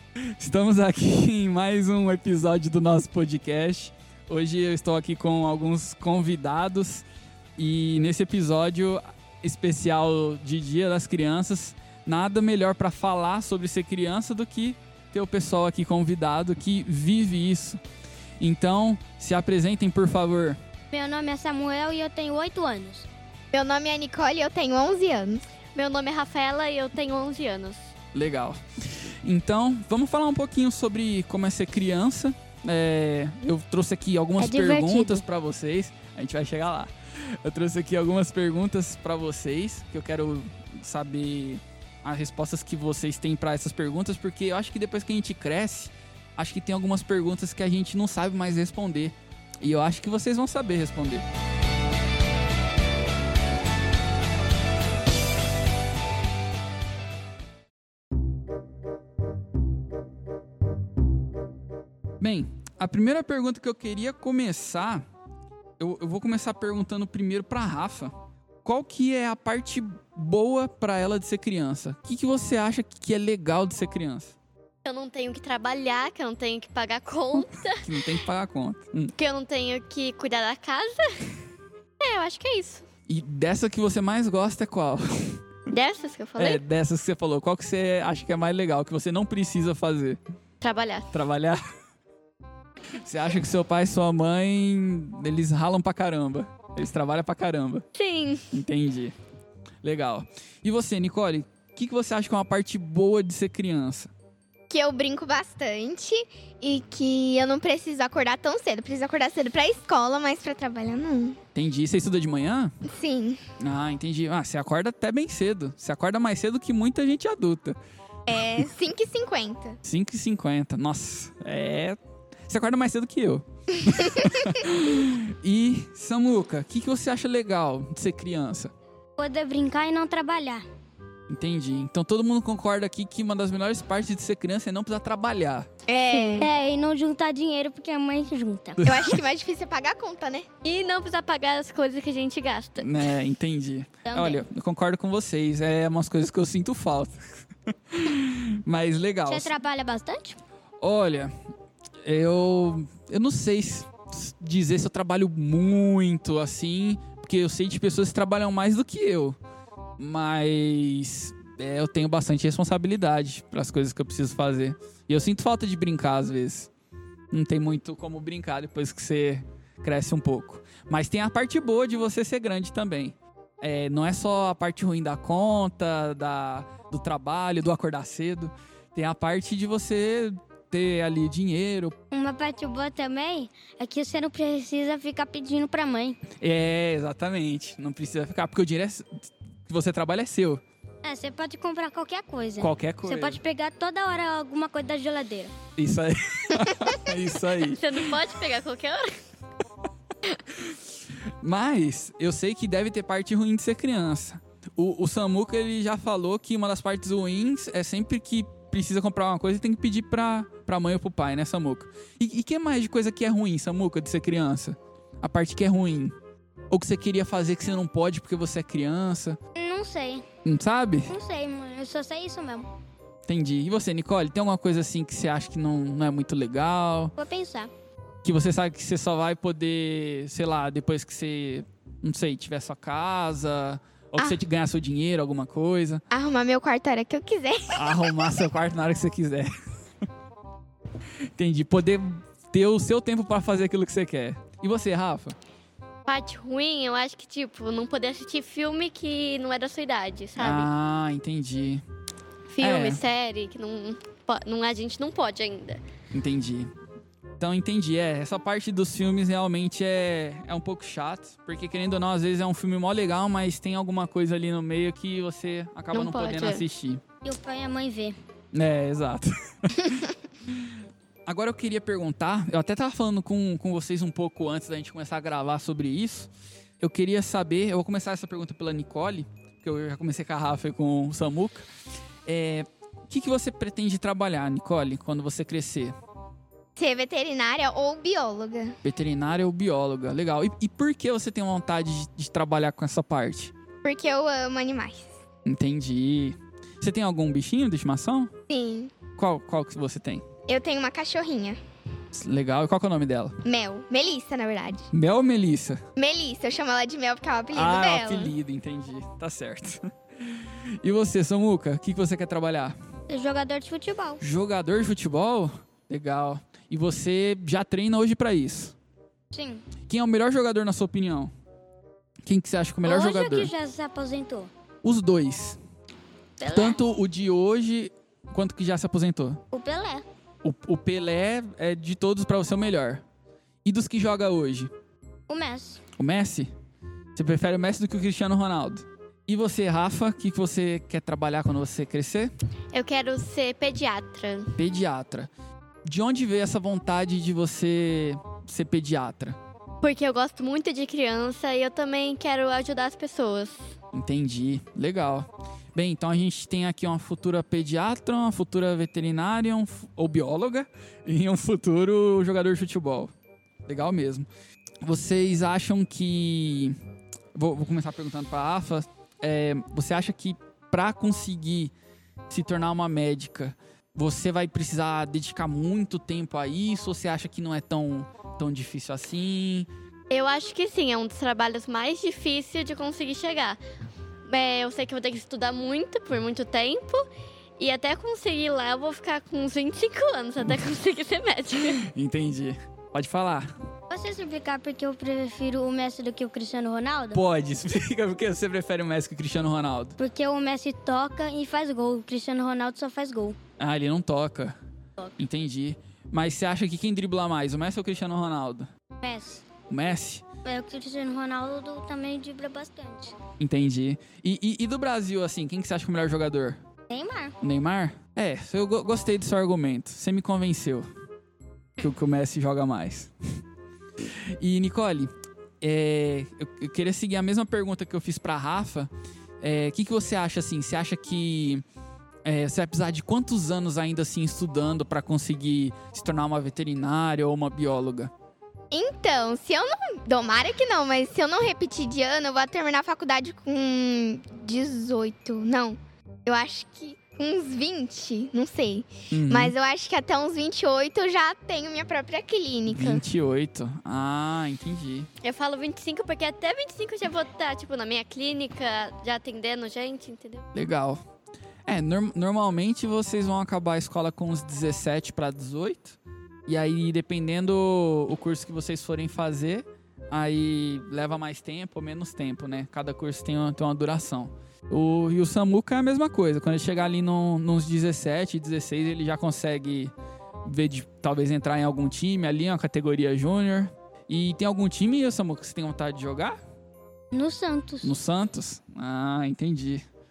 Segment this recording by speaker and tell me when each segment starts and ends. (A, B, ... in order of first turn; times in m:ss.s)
0:00.4-0:07.0 A
0:07.6-0:17.8 A
0:18.4-0:20.6 A
0:20.9-0:23.1 B
0:23.5-0:25.4 C
0:25.7-0:27.9 D
0:28.1-0:51.2 A
0:34.4-0:35.2 B
1:02.2-1:05.0 A
1:05.8-1:14.4 A
1:14.8-1:18.1 D
1:17.8-1:19.1 A
1:19.2-1:21.3 D
1:22.0-1:22.8 D
1:23.1-1:25.4 A
1:25.7-1:26.6 D
1:26.4-1:30.2 A
1:30.6-1:31.1 D
1:31.1-1:31.6 A
1:33.0-1:37.8 A
1:38.0-1:38.6 D
1:38.5-1:39.1 A
1:39.8-1:44.1 A
1:44.7-1:51.4 C
1:51.5-1:52.7 A
1:52.9-1:53.4 C
1:53.6-1:57.8 A
1:58.3-1:59.8 C
1:59.8-2:08.7 A
2:09.2-2:10.6 B
2:11.3-2:15.7 A
2:15.9-2:16.5 C
2:16.1-2:18.8 B
2:18.8-2:19.2 A
2:18.8-2:20.5 C
2:20.6-2:22.9 D
2:22.8-2:29.5 A
2:24.0-2:24.4 B
2:29.2-2:30.4 B
2:30.8-2:31.3 A
2:32.0-2:39.4 A
2:40.0-2:46.7 A
2:47.3-3:01.9 A
3:02.1-3:06.2 B
3:06.4-3:10.6 A
3:11.0-3:15.5 B
3:12.6-3:13.4 A
3:15.8-3:17.9 A
3:17.7-3:19.1 D
3:21.4-3:36.1 A
3:36.7-3:39.4 A
3:39.6-3:40.2 B
3:40.4-3:41.1 A
3:41.1-3:42.7 B
3:43.3-3:47.1 A
3:47.2-3:47.7 B
3:48.2-3:56.0 A
3:56.1-3:58.0 C
3:57.7-3:59.5 A
4:01.4-4:05.4 A
4:06.0-4:10.7 D
4:10.4-4:11.8 A
4:12.5-4:15.8 D
4:12.6-4:13.0 A
4:16.1-4:16.7 A
4:17.4-4:27.0 A
4:25.9-4:26.6 D
4:27.2-4:28.2 B
4:28.5-4:29.9 A
4:31.3-4:41.7 A
4:42.2-4:45.9 A
4:46.8-4:48.8 C
4:48.8-4:53.5 A
4:53.8-4:55.1 C
4:55.4-4:58.3 A
4:58.5-4:58.9 C
4:59.2-5:00.2 A
5:00.5-5:01.6 C
5:02.1-5:03.4 A
5:03.4-5:04.9 C
5:04.9-5:05.8 A
5:06.0-5:08.3 C
5:07.5-5:12.8 A
5:13.1-5:14.2 B
5:14.2-5:18.7 A
5:19.3-5:19.6 B
5:19.9-5:21.3 A
5:22.2-5:23.5 A
5:22.8-5:24.5 B
5:24.8-5:25.6 A
5:26.4-5:26.8 B
5:26.5-5:29.4 A
5:29.5-5:30.0 B
5:30.4-5:33.0 A
5:33.6-5:34.7 A
5:35.3-5:35.8 B
5:36.0-5:36.5 A
5:37.1-5:42.3 A
5:42.7-5:44.5 D
5:44.6-5:45.3 A
5:45.8-5:49.4 A
5:49.8-5:53.6 D
5:53.9-6:03.1 A
6:03.6-6:04.3 A
6:04.8-6:06.8 A
6:07.3-6:11.7 A
6:12.3-6:19.7 A
6:20.1-6:23.6 D
6:24.3-6:27.1 D
6:27.6-6:31.9 D
6:31.7-6:33.5 A
6:33.9-6:37.2 B
6:37.1-6:40.0 A
6:40.0-6:43.4 B
6:43.6-6:44.6 A
6:45.2-6:48.7 A
6:49.0-6:49.5 B
6:49.7-6:50.2 A
6:50.4-6:53.2 B
6:53.4-6:56.6 A
6:56.9-6:57.3 B
6:57.4-7:00.9 A
7:01.8-7:03.1 A
7:04.4-7:11.6 A
7:12.2-7:18.1 A
7:18.7-7:33.0 C
7:29.1-7:29.5 A
7:32.7-7:35.1 A
7:35.2-7:40.4 D
7:40.5-7:41.0 A
7:41.6-7:59.9 A
8:00.4-8:06.4 A
8:07.1-8:07.9 B
8:07.8-8:09.8 A